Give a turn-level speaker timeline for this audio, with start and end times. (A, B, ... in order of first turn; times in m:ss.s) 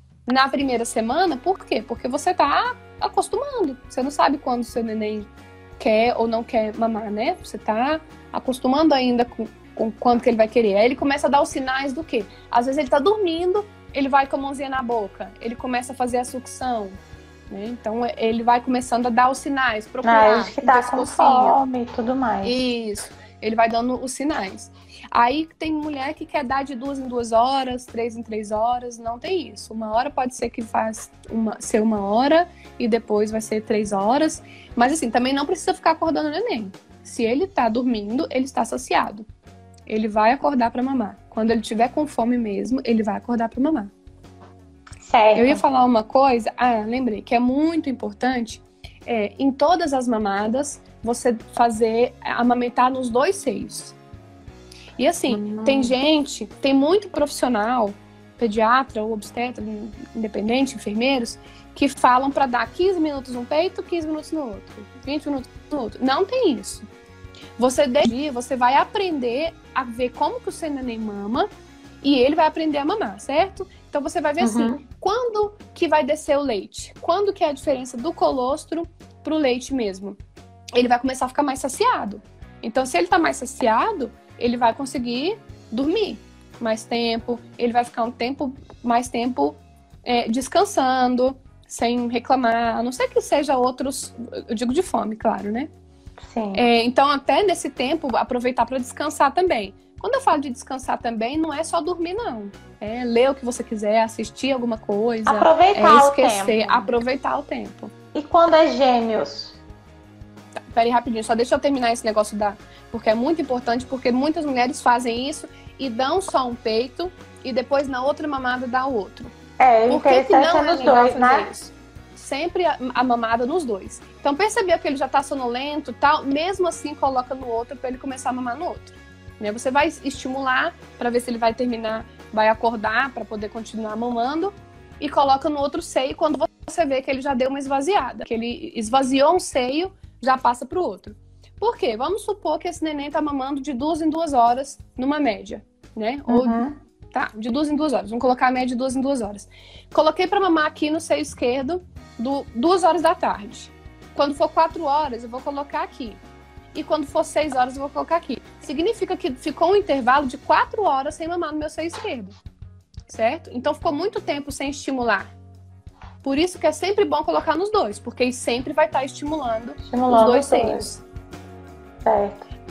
0:00.3-0:17.0 A
0:17.5-0:21.6 A
0:20.0-0:22.6 B
0:22.4-0:39.3 A
0:39.9-0:43.9 A
0:45.0-0:45.6 B
0:45.3-0:54.0 A
0:55.0-1:06.9 A
0:55.3-0:55.9 B
1:07.6-1:11.5 A
1:12.0-1:20.2 A
1:14.4-1:14.8 B
1:20.7-1:35.7 A
1:36.2-1:36.6 B
1:36.5-1:47.9 A
1:45.2-1:46.9 B
1:48.1-1:49.6 B
1:50.7-1:59.3 A
1:59.6-2:01.5 B
1:59.9-2:36.2 A
2:26.3-2:26.8 B
2:36.7-2:42.3 A
2:43.1-2:45.3 A
2:46.2-2:51.0 A
2:49.9-2:50.8 B
2:52.0-2:52.4 B